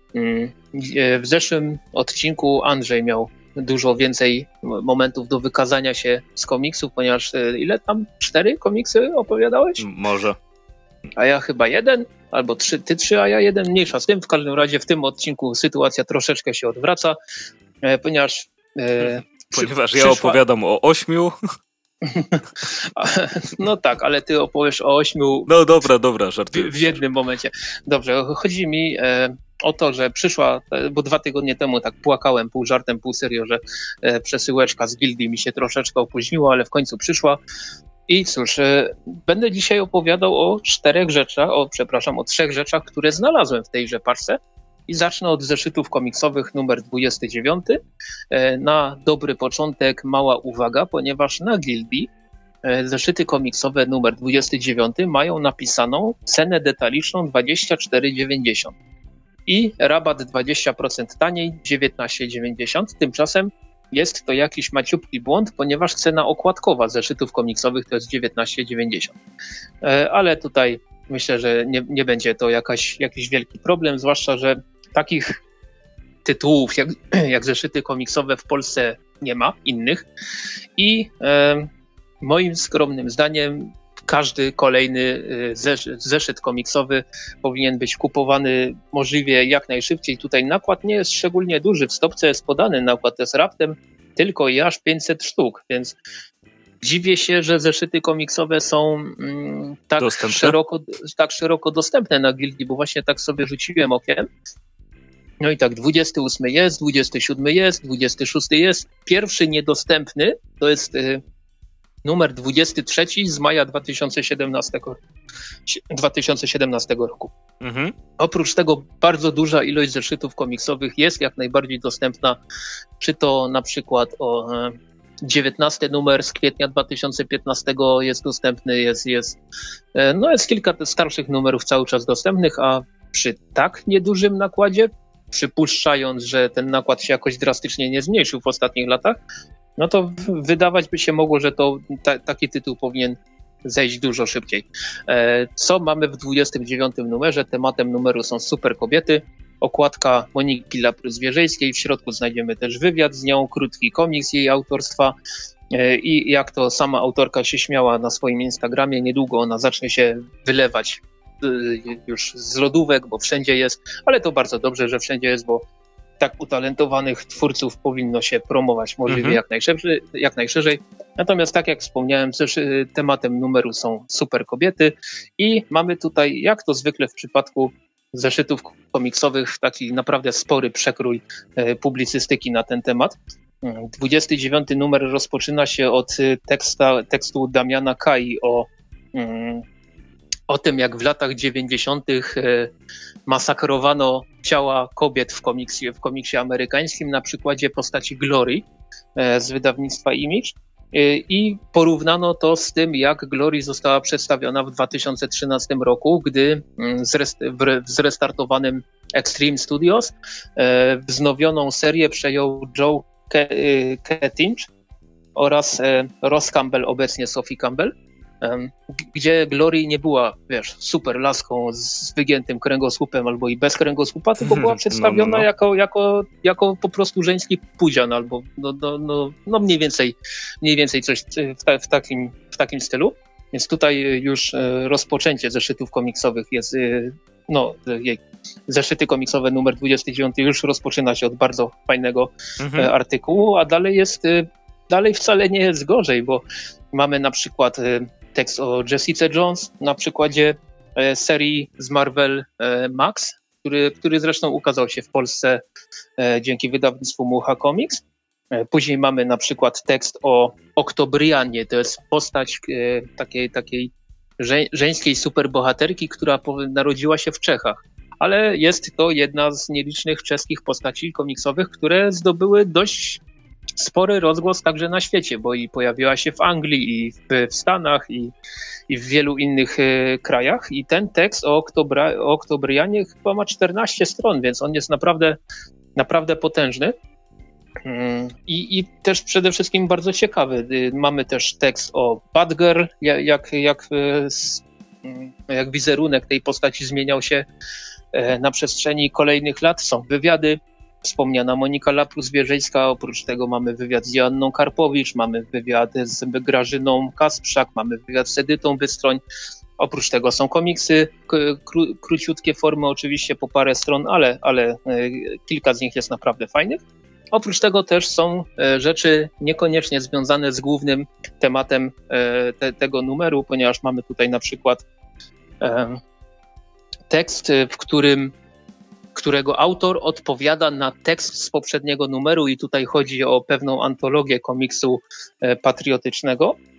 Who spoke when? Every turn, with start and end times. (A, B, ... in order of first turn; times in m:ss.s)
0:00.1-0:09.8 A
0:09.8-0:10.4 B
0:11.2-0:17.2 A
0:17.8-0:20.4 A
0:19.0-0:21.3 B
0:22.0-0:25.5 A
0:25.5-0:27.0 B
0:26.5-0:37.4 A
0:38.1-0:47.8 A
0:48.3-0:52.1 A
0:52.6-0:58.7 A
0:59.5-1:09.2 A
1:09.8-1:15.4 A
1:16.2-1:20.0 A
1:20.8-1:21.7 A
1:22.2-1:36.0 A
1:36.8-1:44.3 A
1:40.0-1:40.5 B
1:45.4-1:51.2 A
1:52.0-1:55.0 A
1:55.6-1:57.3 A
1:57.6-1:57.9 B
1:58.2-2:02.4 A
2:03.0-2:09.4 A
2:09.9-2:19.2 A
2:19.8-2:35.1 A
2:35.7-2:45.6 A
2:46.2-3:09.6 A
2:49.1-2:49.4 B
3:10.5-3:12.7 A
3:13.3-3:34.7 A
3:35.4-4:15.6 A
3:44.4-3:45.4 B
4:02.6-4:02.9 B
4:16.2-4:18.0 A
4:18.5-4:33.2 A
4:33.8-4:38.3 A
4:38.9-4:45.4 A
4:46.0-4:46.9 A
4:47.8-4:57.4 A
4:58.1-5:09.2 A
5:09.8-5:16.8 A
5:17.3-5:24.8 A
5:25.6-5:26.0 A
5:27.1-5:28.3 A
5:29.2-5:36.6 A